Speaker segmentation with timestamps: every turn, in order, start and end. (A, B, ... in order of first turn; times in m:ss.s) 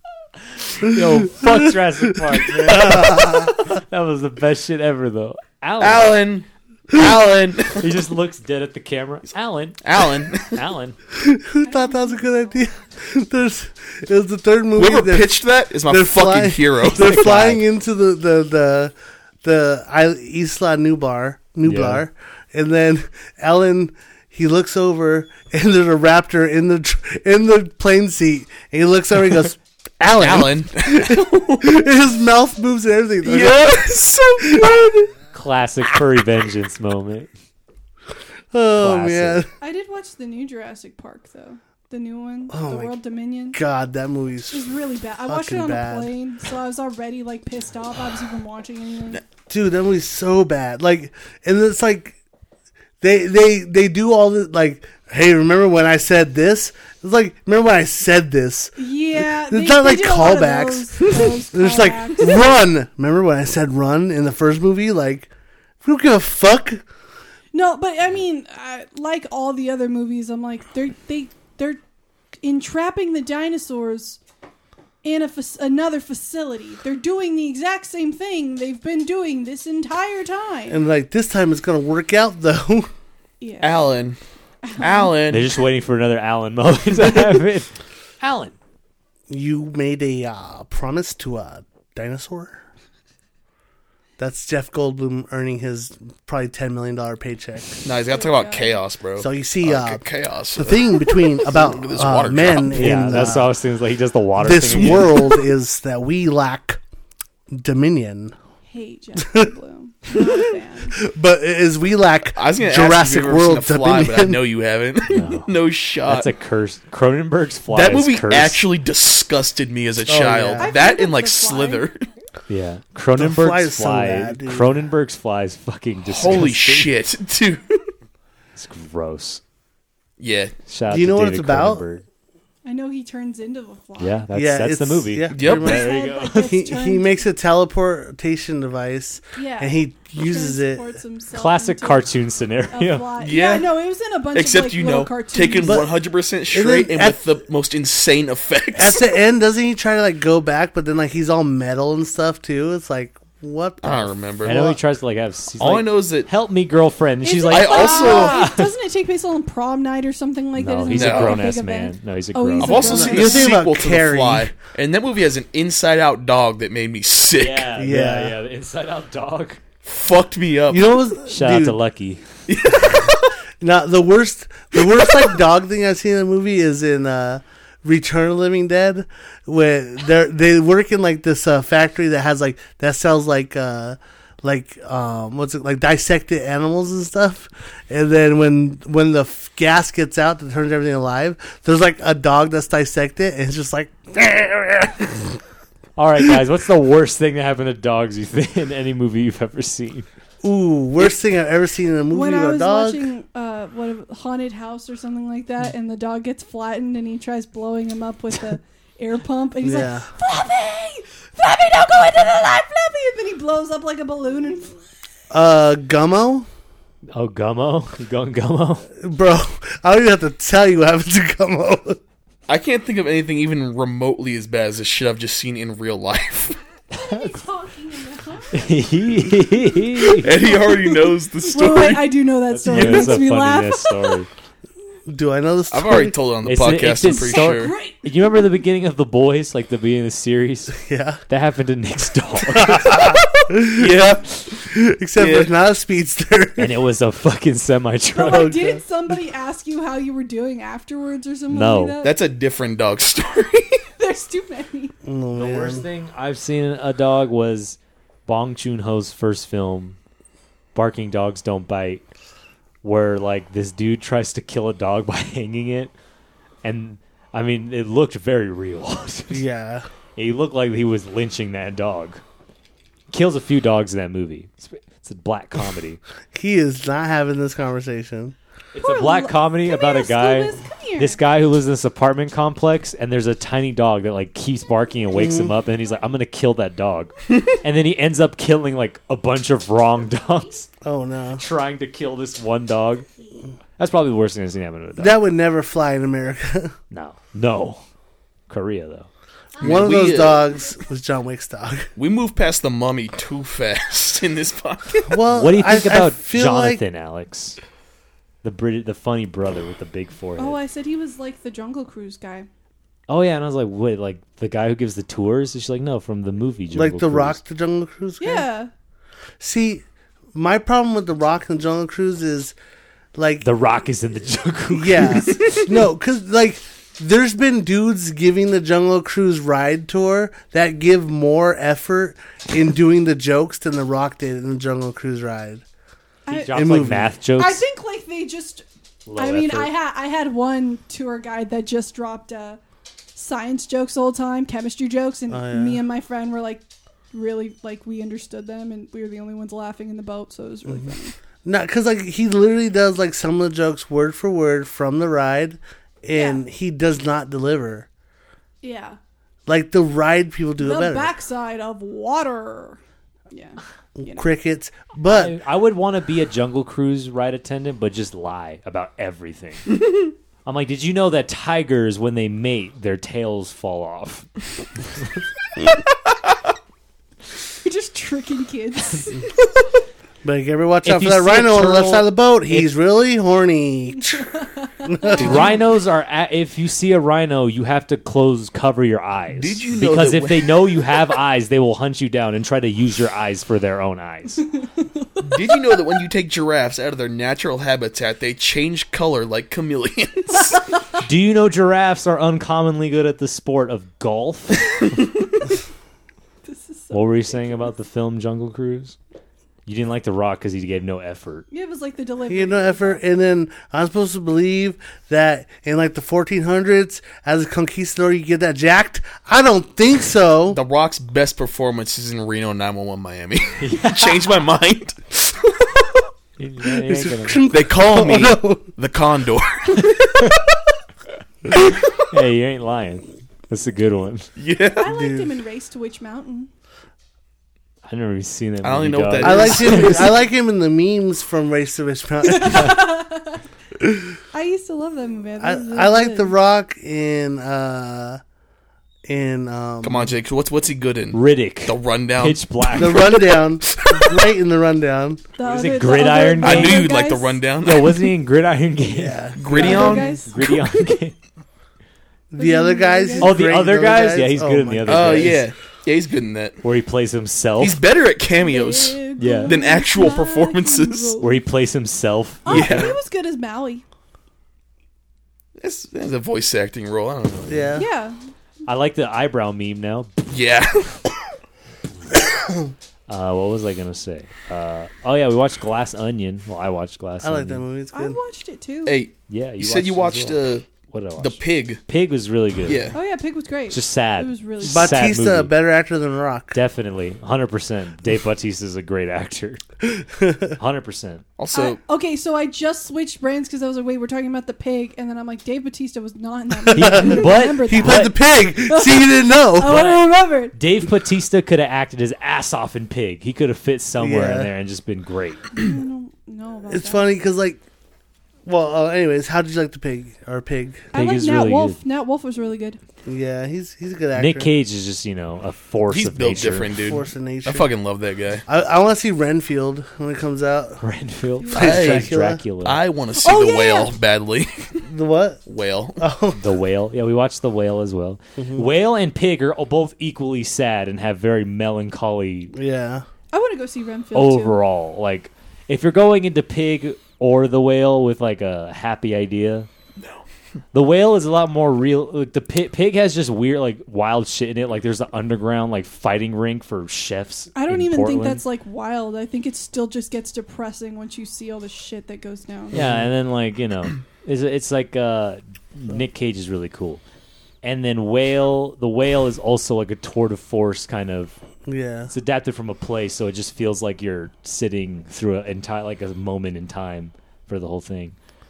0:00.7-0:06.2 A
0:00.8-0:01.7 B
0:02.6-0:03.7 B
0:05.8-0:07.9 C
0:07.8-0:09.8 A
0:09.8-0:10.6 C
0:10.4-0:11.0 A
0:11.1-0:15.3 B
0:11.6-0:12.4 D
0:14.8-0:17.6 C
0:15.9-0:18.9 B
0:17.0-0:17.6 A
0:19.4-0:33.8 B
0:21.6-0:22.0 A
0:30.2-0:31.8 C
0:33.2-0:35.1 C
0:34.4-0:34.9 B
0:35.3-0:37.3 A
0:38.5-0:39.5 B
0:38.8-0:39.4 A
0:39.6-0:43.6 D
0:42.5-0:42.9 B
0:43.5-0:44.7 B
0:44.5-0:49.2 D
0:45.3-0:46.1 B
0:49.5-0:52.2 B
0:53.0-1:05.3 B
0:58.8-1:02.4 D
1:05.8-1:06.8 B
1:07.5-1:11.8 D
1:12.4-1:14.2 D
1:15.0-1:20.8 D
1:20.7-1:22.9 B
1:23.4-1:23.9 D
1:23.6-1:24.2 C
1:24.6-1:25.2 D
1:24.8-1:25.5 C
1:25.3-1:28.6 A
1:27.0-1:27.3 C
1:29.3-1:32.6 B
1:34.2-1:37.8 B
1:37.8-1:43.4 C
1:38.1-1:38.8 D
1:39.2-1:40.0 B
1:40.6-1:43.5 B
1:42.7-1:45.2 A
1:44.4-1:46.8 B
1:44.7-1:45.2 C
1:47.5-1:48.4 B
1:48.7-1:51.0 D
1:49.2-1:49.5 B
1:50.9-1:54.4 B
1:52.4-1:56.3 C
1:55.1-1:55.5 A
1:56.1-1:58.6 A
1:57.7-2:02.0 C
2:00.0-2:00.7 B
2:00.6-2:01.9 D
2:02.5-2:06.9 A
2:03.2-2:04.8 B
2:06.1-2:07.9 C
2:08.6-2:09.4 A
2:10.2-2:10.5 C
2:10.7-2:12.0 A
2:10.9-2:11.8 B
2:12.6-2:14.2 D
2:14.0-2:16.5 A
2:14.3-2:21.0 B
2:15.3-2:15.8 C
2:15.5-2:17.2 D
2:19.4-2:22.1 D
2:21.3-2:23.1 A
2:22.7-2:25.8 D
2:23.2-2:23.7 C
2:24.3-2:29.0 C
2:25.6-2:25.9 B
2:26.5-2:27.2 B
2:28.8-2:34.8 B
2:33.8-2:34.7 C
2:34.4-2:38.7 A
2:35.6-2:36.3 C
2:37.2-2:43.5 D
2:37.5-2:38.5 C
2:40.6-2:43.0 A
2:40.9-2:41.4 C
2:42.6-2:47.7 C
2:42.9-2:44.5 B
2:47.4-2:49.6 A
2:47.8-2:48.4 B
2:49.8-2:51.0 C
2:50.7-2:51.8 B
2:51.3-2:52.2 A
2:52.5-2:53.4 C
2:53.6-3:15.3 B
2:55.0-2:55.3 C
3:16.0-3:20.1 A
3:20.4-3:23.1 B
3:22.1-3:34.8 D
3:29.6-3:30.1 B
3:35.3-3:36.5 B
3:37.1-3:38.9 A
3:39.0-3:42.0 B
3:42.5-3:46.6 C
3:46.9-3:47.4 A
3:47.0-3:48.7 D
3:48.5-3:50.3 A
3:50.1-3:52.1 C
3:50.4-3:54.2 D
3:52.5-3:54.3 A
3:55.1-3:56.2 B
3:55.7-3:57.7 C
3:56.4-4:00.8 A
3:57.0-3:58.1 D
4:00.8-4:01.2 B
4:01.3-4:03.0 A
4:02.6-4:06.7 B
4:02.9-4:04.4 C
4:05.2-4:05.5 C
4:06.6-4:08.6 A
4:08.1-4:12.2 D
4:08.2-4:08.8 B
4:11.5-4:12.0 A
4:12.0-4:13.8 C
4:14.0-4:15.0 D
4:15.0-4:15.8 B
4:15.4-4:20.0 A
4:20.8-4:22.0 A
4:22.8-4:25.9 A
4:26.6-4:29.4 A
4:29.3-4:29.9 B
4:30.2-4:32.2 A
4:33.1-4:36.0 A
4:36.3-4:38.4 B
4:38.7-4:50.7 A
4:38.8-4:41.2 D
4:45.1-4:45.5 B
4:50.8-4:51.4 B
4:51.4-4:53.1 A
4:53.8-4:55.2 A
4:55.0-4:56.7 B
4:56.9-4:57.8 A
4:58.5-4:59.1 A
4:59.6-5:01.9 B
4:59.6-5:00.4 C
5:02.0-5:05.2 C
5:05.1-5:06.8 B
5:05.3-5:07.6 A
5:08.4-5:10.6 A
5:10.4-5:12.5 D
5:13.1-5:17.4 A
5:16.7-5:18.4 B
5:18.2-5:18.7 D
5:19.4-5:22.6 B
5:23.2-5:23.4 B
5:23.4-5:25.4 A
5:24.7-5:35.6 B
5:36.3-5:36.7 D
5:36.3-5:37.6 A
5:36.5-5:37.1 B
5:37.4-5:38.6 D
5:39.1-5:39.7 A
5:39.2-5:42.6 D
5:43.2-5:51.2 D
5:45.3-5:45.8 B
5:51.4-5:57.9 B
5:56.1-5:56.4 D
5:58.6-5:59.0 D
5:59.5-6:01.1 B
6:00.6-6:02.8 D
6:03.3-6:04.3 D
6:04.0-6:05.3 B
6:05.1-6:09.7 A
6:09.8-6:10.0 C
6:10.4-6:14.3 A
6:14.8-6:15.1 A
6:17.6-6:19.2 D
6:20.2-6:24.3 B
6:20.8-6:22.7 A
6:24.0-6:25.5 D
6:24.8-6:25.6 B
6:25.1-6:34.4 A
6:29.3-6:30.9 C
6:34.6-6:35.8 D
6:35.2-6:40.7 C
6:41.0-6:44.9 A
6:46.4-6:47.7 D
6:46.9-6:49.0 A
6:49.7-6:51.5 A
6:51.5-6:53.0 D
6:52.3-7:00.6 B
7:00.5-7:05.9 C
7:03.6-7:04.2 A
7:06.4-7:07.4 A
7:06.8-7:08.7 B
7:07.5-7:10.4 C
7:11.5-7:12.0 C
7:12.1-7:14.3 A
7:14.4-7:14.9 C
7:14.8-7:16.5 D
7:14.8-7:15.3 B
7:17.9-7:20.2 A
7:18.6-7:20.1 C
7:19.2-7:22.8 B
7:22.2-7:23.4 D
7:23.8-7:24.2 B
7:24.3-7:26.3 D
7:25.4-7:28.2 B
7:29.1-7:30.1 B
7:29.8-7:34.2 C
7:31.1-7:33.2 A
7:32.8-7:35.2 B
7:35.4-7:37.4 D
7:35.4-7:36.9 A
7:36.4-7:38.1 C
7:37.6-7:39.7 A
7:38.9-7:40.2 B
7:39.4-7:40.2 C
7:39.5-7:41.0 D
7:40.2-7:41.2 A
7:42.3-7:45.4 B
7:42.4-7:43.4 D
7:43.2-7:45.4 A
7:44.9-7:46.6 C
7:46.6-7:47.8 A
7:47.6-7:51.2 C
7:48.4-7:51.4 D
7:49.2-7:49.6 A
7:51.2-7:52.5 A
7:52.4-7:53.8 D
7:52.5-7:52.9 C
7:52.6-7:52.9 B
7:55.6-7:57.7 C
7:57.5-7:57.9 B
7:57.8-7:58.2 D
7:58.7-8:00.3 A
8:00.3-8:01.3 C
8:02.4-8:02.7 B
8:03.1-8:07.6 A
8:07.2-8:08.2 B
8:07.9-8:09.0 D
8:08.9-8:11.8 C
8:09.3-8:12.9 A
8:12.6-8:13.0 C
8:12.9-8:15.1 D
8:13.7-8:15.5 A
8:14.6-8:16.6 B
8:16.5-8:19.6 A
8:19.8-8:20.6 B
8:20.6-8:21.2 A
8:21.4-8:21.8 C
8:21.5-8:30.6 D
8:26.7-8:29.8 B
8:26.7-8:28.0 A
8:29.6-8:35.5 A
8:34.0-8:34.5 B
8:35.5-8:37.2 D
8:36.7-8:37.6 B
8:38.5-8:40.9 B
8:40.9-8:42.8 D
8:40.9-8:41.8 A
8:43.1-8:44.5 B
8:44.2-8:46.7 A
8:45.9-8:48.4 C
8:46.8-8:47.7 B
8:48.5-8:50.8 B
8:50.8-8:52.8 A
8:51.4-8:51.8 D
8:51.5-8:52.4 B
8:51.6-8:52.1 C
8:52.6-8:54.8 C
8:53.2-8:53.9 D
8:54.8-8:55.4 B
8:55.5-8:56.0 C
8:56.0-8:56.4 B
8:56.3-9:02.5 A
8:58.4-8:58.7 B
9:02.5-9:03.0 B
9:03.3-9:04.6 D
9:04.1-9:09.7 A
9:10.7-9:18.4 A
9:17.6-9:22.7 D
9:22.7-9:23.1 B
9:22.7-9:27.0 A
9:27.6-9:31.4 A
9:31.7-9:32.1 B
9:32.1-9:38.2 A